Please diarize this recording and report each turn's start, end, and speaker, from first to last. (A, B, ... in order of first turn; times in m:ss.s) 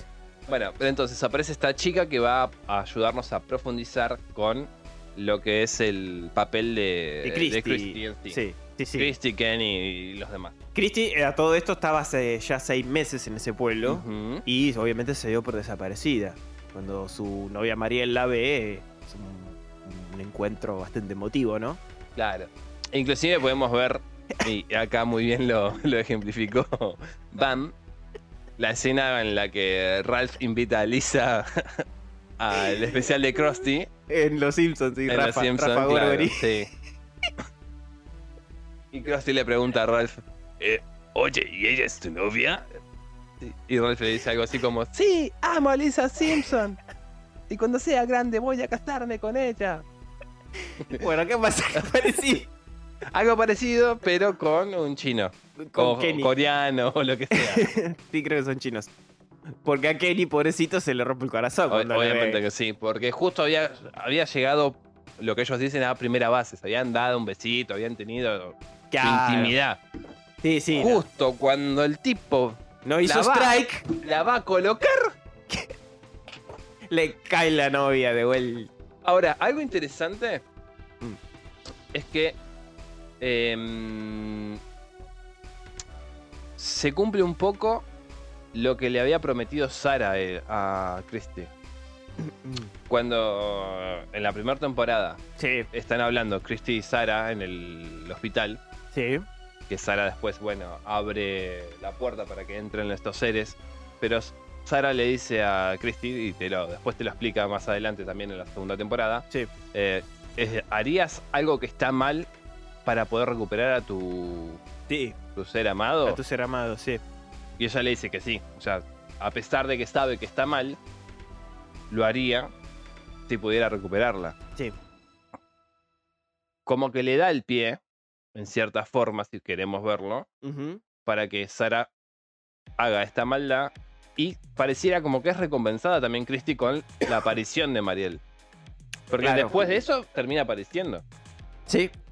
0:00.5-0:08.4 A
0:07.2-0:09.1 B
0:09.0-0:10.6 A
0:10.8-0:21.8 B
0:13.8-0:14.4 A
0:22.2-0:27.8 A
0:28.6-0:31.8 A
0:32.4-0:33.9 A
0:34.1-0:36.5 B
0:35.1-0:36.7 A
0:38.9-0:42.8 A
0:43.4-0:46.8 A
0:47.5-0:49.9 A
0:50.7-0:52.5 B
0:53.1-0:57.6 A
0:55.6-0:56.3 B
0:57.3-0:58.9 B
0:59.6-1:02.4 B
1:01.7-1:09.8 A
1:08.9-1:09.6 B
1:10.4-1:11.0 B
1:10.7-1:15.1 A
1:12.8-1:13.9 B
1:16.9-1:18.7 B
1:19.0-1:20.4 A
1:21.9-1:22.4 A
1:23.2-1:24.6 A
1:26.6-1:27.9 A
1:28.5-1:31.5 A
1:32.2-1:32.7 B
1:32.9-1:38.6 A
1:35.4-1:35.7 B
1:38.9-1:39.2 B
1:39.7-1:52.3 A
1:52.8-1:54.6 A
1:54.9-1:55.2 B
1:55.4-1:56.2 A
1:56.1-1:57.0 B
1:57.6-2:00.8 A
2:01.9-2:02.5 A
2:03.3-2:04.4 A
2:06.7-2:07.8 A
2:08.4-2:10.3 A
2:10.4-2:10.8 B
2:11.0-2:11.9 A
2:12.8-2:18.2 A
2:19.1-2:21.0 A
2:19.2-2:19.6 B
2:21.7-2:21.9 B